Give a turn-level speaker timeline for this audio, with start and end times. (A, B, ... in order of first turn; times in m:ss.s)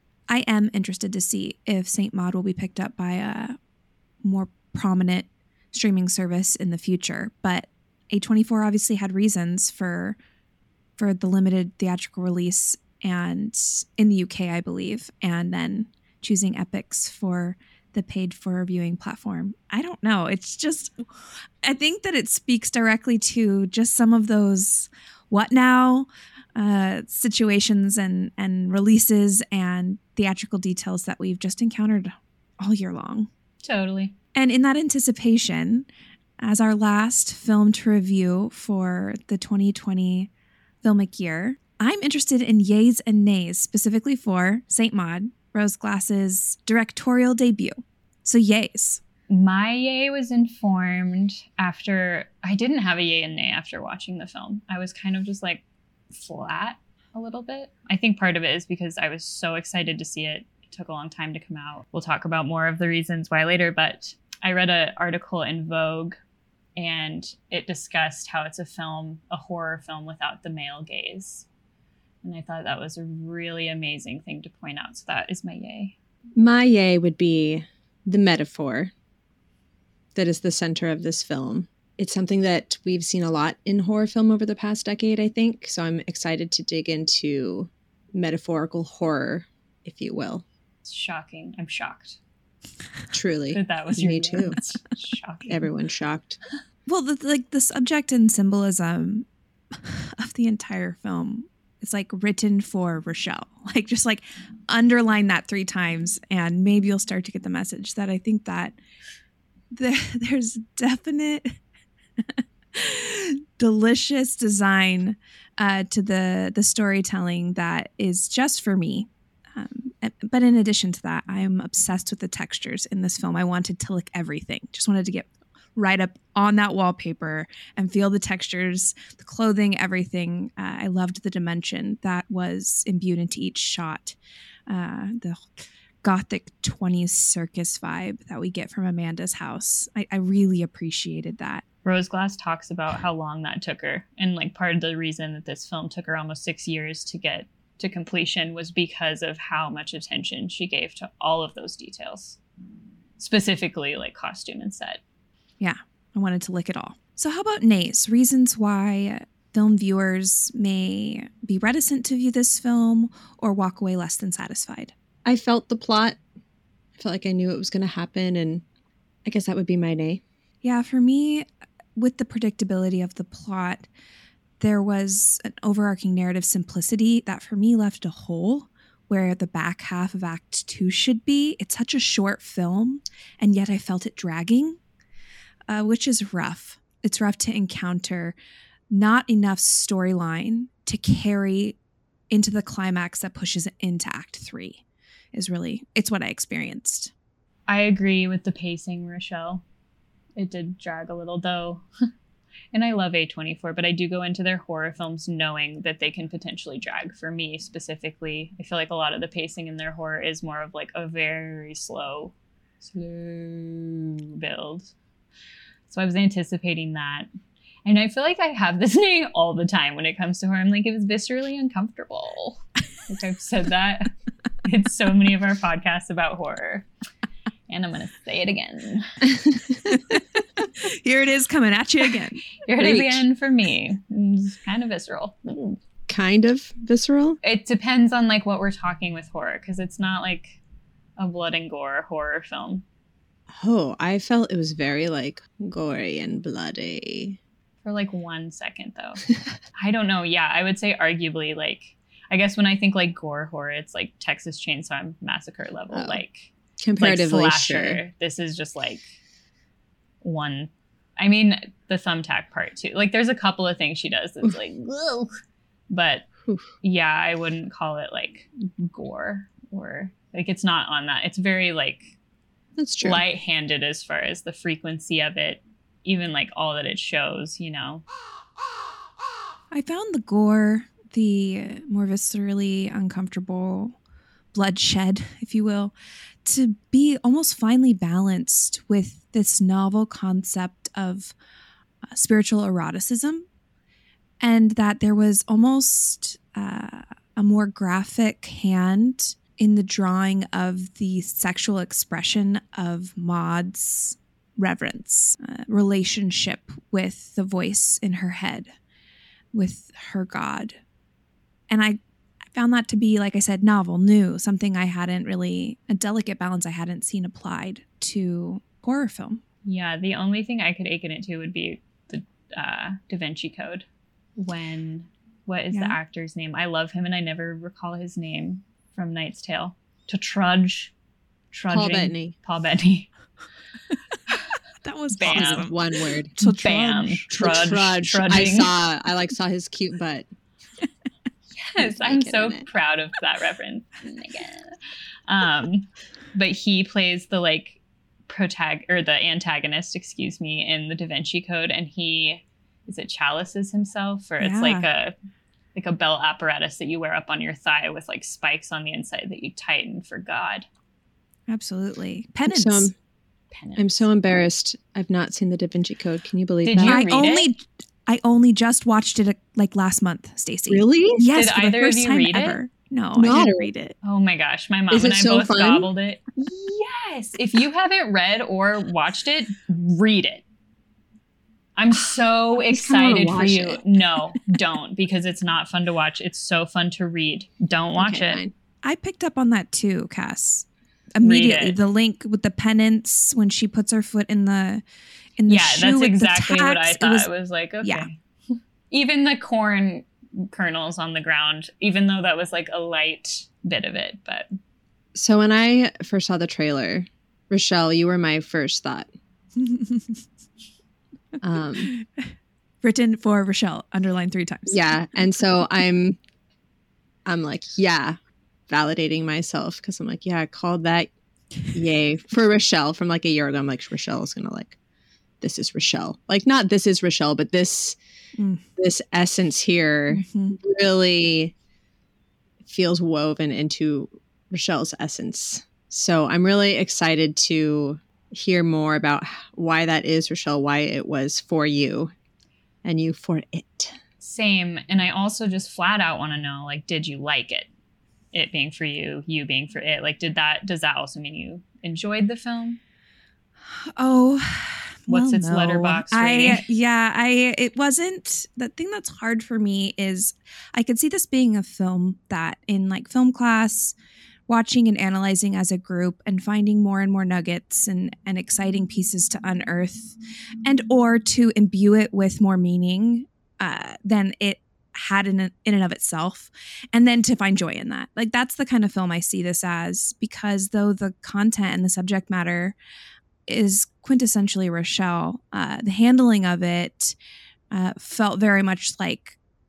0:00.3-0:03.6 A
0:04.2-0:10.2 A
0:11.0-0:21.0 A
0:21.6-0:33.3 A
0:33.6-0:34.1 B
0:34.4-0:35.9 A
0:36.4-0:40.3 A
0:40.8-0:49.0 A
0:49.3-1:06.2 B
1:06.8-1:11.5 B
1:12.2-1:16.0 B
1:16.4-1:18.9 C
1:20.2-1:30.4 C
1:30.8-1:32.2 B
1:33.1-1:34.6 C
1:33.5-1:35.6 B
1:35.5-1:36.4 C
1:36.9-1:39.3 A
1:39.8-1:48.8 A
1:49.7-1:51.6 A
1:52.4-2:14.2 A
2:14.7-2:15.5 A
2:16.0-2:21.6 A
2:21.8-2:32.4 B
2:33.2-2:35.0 B
2:35.6-2:44.9 A
2:45.2-2:46.2 C
2:47.0-2:48.6 C
2:49.3-2:50.2 C
2:50.6-2:53.9 A
2:54.6-3:04.8 A
3:05.7-3:08.4 A
3:08.9-3:11.8 A
3:12.3-3:14.8 A
3:15.3-3:17.1 A
3:17.7-3:19.6 B
3:20.4-3:21.9 B
3:22.7-3:34.9 B
3:35.9-3:37.3 B
3:37.8-3:46.9 B
3:47.7-3:49.2 B
3:49.9-3:50.2 A
3:50.8-3:52.4 A
3:52.6-3:55.8 B
3:52.8-3:53.2 C
3:56.1-3:57.4 C
3:57.4-4:00.6 B
4:01.2-4:02.8 B
4:03.5-4:07.4 C
4:07.8-4:19.1 B
4:15.9-4:16.2 C
4:16.8-4:18.0 C
4:20.2-4:25.4 B
4:25.9-4:26.3 B
4:26.8-4:32.1 B
4:32.8-4:33.2 C
4:33.0-4:38.0 B
4:39.7-4:44.0 A
4:44.5-4:51.4 A
4:52.1-4:53.5 A
4:54.4-5:08.7 A
5:09.5-5:10.8 A
5:11.7-5:12.0 A
5:12.6-5:19.4 A
5:19.6-5:23.9 B
5:24.4-5:30.9 B
5:25.7-5:26.0 A
5:31.5-5:33.1 B
5:31.7-5:32.4 C
5:34.8-5:35.8 A
5:35.2-5:35.7 B
5:35.2-5:36.4 C
5:36.4-5:37.6 A
5:36.4-5:38.7 B
5:37.3-5:40.3 C
5:41.6-5:55.2 B
5:41.8-5:42.7 C
5:54.4-5:54.9 A
5:55.8-6:00.7 B
6:01.5-6:02.9 A
6:02.5-6:02.9 C
6:03.5-6:04.1 B
6:03.8-6:07.1 C
6:06.6-6:07.5 B
6:06.8-6:14.0 A
6:10.7-6:11.2 C
6:11.3-6:12.6 B
6:13.2-6:13.7 C
6:14.0-6:20.4 B
6:14.9-6:15.9 C
6:21.8-6:28.4 B
6:22.7-6:23.8 C
6:28.0-6:28.5 C
6:28.8-6:34.8 A
6:31.2-6:31.8 B
6:35.4-6:37.3 A
6:35.5-6:38.2 B
6:37.8-6:38.1 A
6:38.9-6:44.5 B
6:45.2-6:49.1 C
6:49.6-6:50.2 A
6:51.4-6:52.0 C
6:52.8-6:54.8 A
6:54.7-6:56.2 C
6:57.3-7:01.1 C
7:01.7-7:04.8 C
7:05.4-7:08.0 C
7:08.4-7:08.6 A
7:08.8-7:11.5 C
7:10.1-7:10.6 A
7:12.6-7:22.1 C
7:22.8-7:24.0 C
7:24.2-7:27.7 B
7:28.3-7:32.8 B
7:33.8-7:44.0 A
7:35.1-7:36.6 B
7:44.5-8:02.8 A
8:03.5-8:07.2 A
8:07.7-8:09.4 A